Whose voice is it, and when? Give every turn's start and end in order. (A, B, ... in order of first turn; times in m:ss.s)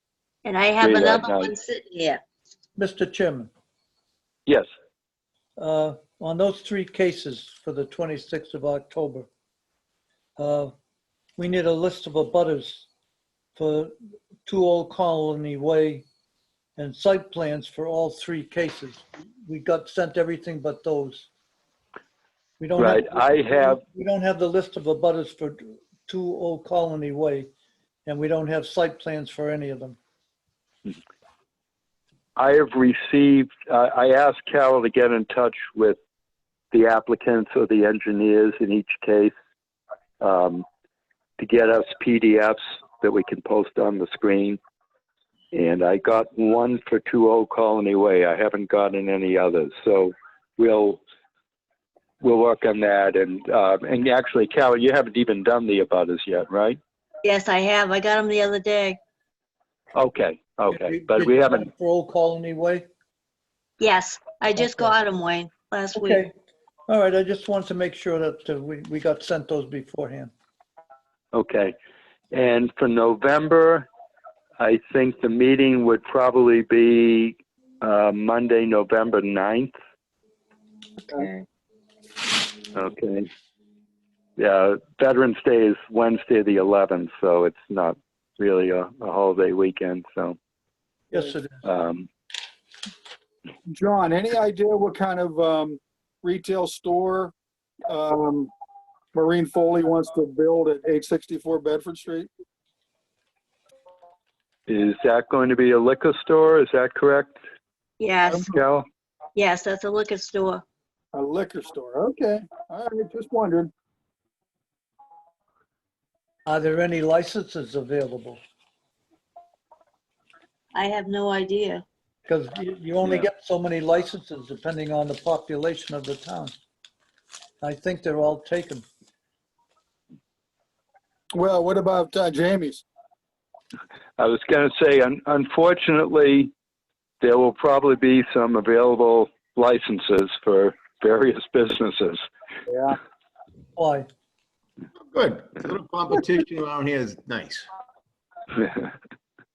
0:00.4-0:02.2 A
0:00.8-0:01.5 B
0:02.8-0:03.5 C
0:05.6-0:09.3 C
0:10.4-0:10.7 C
0:11.4-0:12.9 C
0:13.6-0:13.9 C
0:14.4-0:16.1 C
0:16.8-0:21.3 C
0:22.6-0:27.5 C
0:22.8-0:23.8 B
0:28.1-0:30.0 C
0:32.4-0:36.0 B
0:36.7-0:39.3 B
0:40.2-0:40.6 B
0:41.4-0:44.6 B
0:45.5-0:51.0 B
0:52.2-0:56.8 B
0:57.2-0:59.0 A
1:00.0-1:01.7 B
1:00.7-1:02.9 C
1:03.8-1:06.2 A
1:04.6-1:04.9 C
1:05.9-1:06.3 C
1:06.9-1:10.3 C
1:11.3-1:11.7 B
1:12.3-1:13.9 B
1:14.6-1:19.7 B
1:21.1-1:21.4 A
1:22.7-1:23.3 B
1:24.4-1:30.4 B
1:31.1-1:31.6 C
1:31.6-1:32.1 B
1:33.7-1:37.3 D
1:37.9-1:38.5 D
1:39.1-1:42.3 D
1:44.7-1:47.4 B
1:48.0-1:48.5 A
1:48.3-1:48.5 D
1:48.5-1:48.9 B
1:49.4-1:50.6 A
1:51.1-1:53.7 D
1:56.5-1:58.4 C
2:00.7-2:01.8 A
2:02.3-2:06.6 C
2:07.6-2:08.8 C
2:11.3-2:12.8 D
2:14.2-2:16.5 B
2:17.2-2:22.2 B
2:22.7-2:23.0 D
2:23.8-2:24.1 C
2:25.1-2:27.7 E